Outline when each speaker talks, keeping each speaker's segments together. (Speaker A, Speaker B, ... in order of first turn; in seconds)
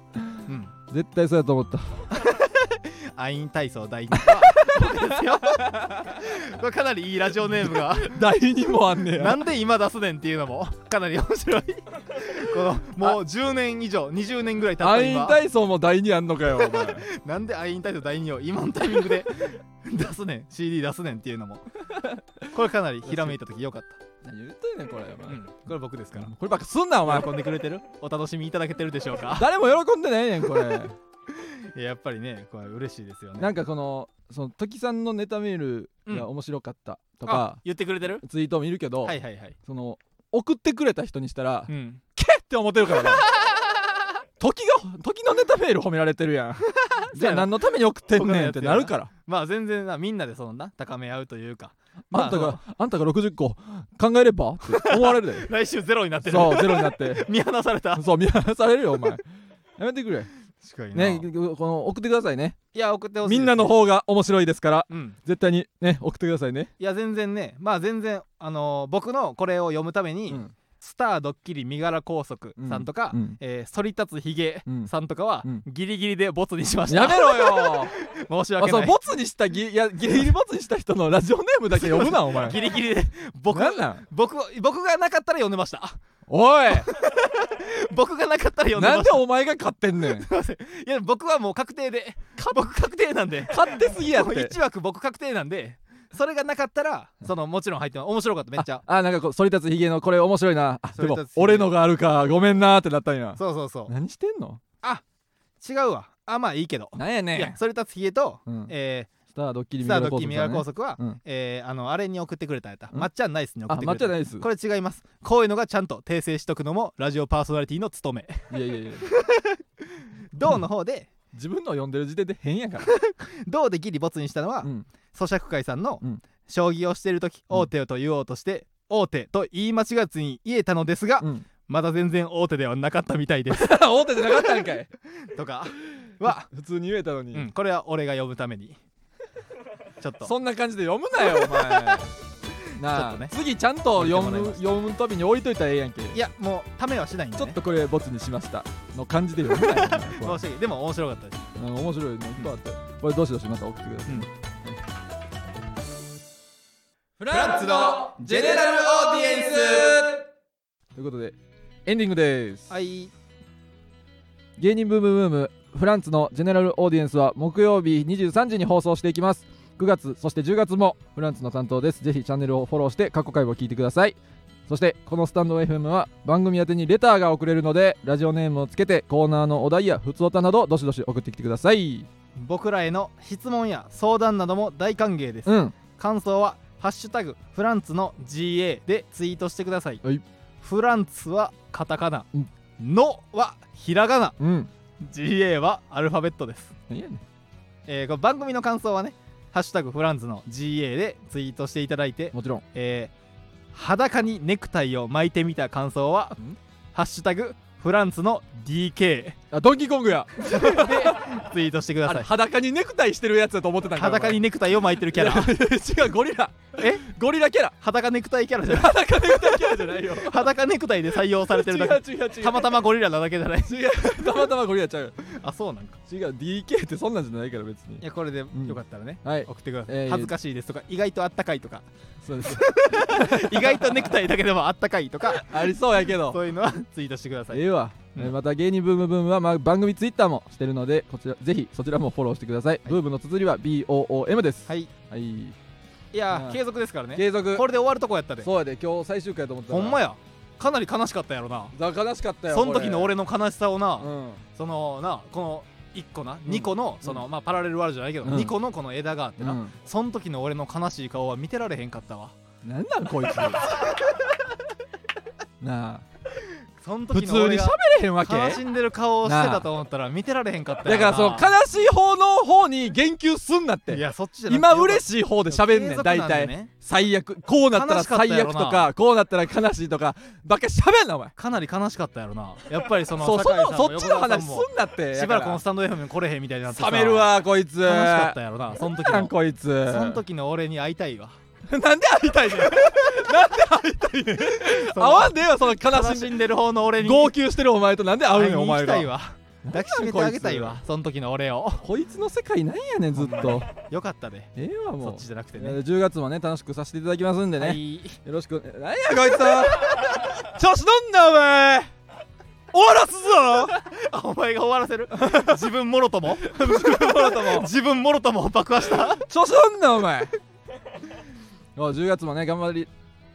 Speaker A: 0.5-0.7, 2.1-8.2, 9.1-15.4, 16.6-21.6, 22.5-24.0, 25.3-26.3, 27.0-29.5, 31.3-33.5, 37.3-38.2, 39.0-39.5, 41.7-42.0, 46.9-47.6, 48.1-52.6, 54.7-58.0, 60.6-61.3, 62.7-63.8, 64.9-65.2, 66.8-79.0, 81.7-86.0, 86.8-89.2, 90.0-98.8, 100.9-101.7, 103.4-103.9, 105.6-109.1, 109.8-118.5, 119.1-121.1, 122.9-133.7, 134.4-134.7, 135.2-136.5, 137.3-138.8, 140.0-140.3, 141.2-142.1, 142.8-143.3, 143.9-144.7, 146.1-147.6, 149.5-151.5, 157.3-160.0, 162.7-163.1, 182.4-190.0, 190.6-192.3, 192.8-194.4, 195.0-196.7, 197.9-203.1, 203.7-206.4, 206.9-209.4, 210.4-212.3, 213.9-215.5, 216.8-217.1, 217.8-224.5, 225.3-226.0, 228.0-231.8, 232.4-237.6, 244.7-244.9, 246.1-248.5, 249.7-251.8, 252.5-262.4, 266.8-271.5, 273.9-276.7, 277.7-278.9, 281.4-289.4, 289.9-291.4, 292.6-293.3, 294.6-297.4, 298.3-301.9, 303.1-305.8, 307.6-308.2, 313.8-319.2
Speaker B: 0.9-2.3, 4.2-4.9, 7.8-9.4, 14.8-17.1, 21.9-22.2, 23.1-23.4, 24.2-25.4, 26.2-27.3, 29.3-31.0, 33.4-37.6, 38.2-43.3, 44.4-49.1, 52.1-55.5, 56.2-57.3, 58.0-59.2, 59.8-60.3, 60.9-62.6, 63.2-66.7, 72.6-73.4, 76.9-78.0, 78.6-82.8, 83.5-84.1, 86.3-86.9, 88.8-90.3, 93.5-94.6, 98.6-104.6, 107.0-107.6, 108.5-108.7, 109.3-111.2, 113.7-114.5, 118.5-119.1, 121.3-122.9, 131.2-131.5, 133.5-134.9, 136.3-137.5, 140.2-142.1, 142.8-146.2, 147.4-150.4, 151.6-154.8, 157.2-160.2, 161.0-162.8, 164.6-182.1, 185.5-185.8, 194.4-194.7, 196.9-197.2, 202.3-202.6, 209.5-211.4, 212.1-214.4, 215.1-217.7, 218.7-220.5, 221.5-222.8, 223.7-225.3, 226.1-230.3, 232.2-234.1, 235.3-236.4, 237.5-245.6, 246.3-246.6, 247.2-247.7, 248.4-250.0, 251.7-253.1, 254.0-254.4, 256.5-257.2, 258.2-258.6, 259.4-259.8, 262.6-264.1, 265.6-266.1, 267.1-268.6, 269.2-269.7, 270.9-281.4, 283.2-285.6, 286.7-290.2, 291.7-296.4, 297.0-299.1, 299.6-300.8, 301.8-303.7, 304.6-311.9, 312.7-313.8, 315.1-315.6, 316.4-317.7, 319.2-320.3, 321.8-322.9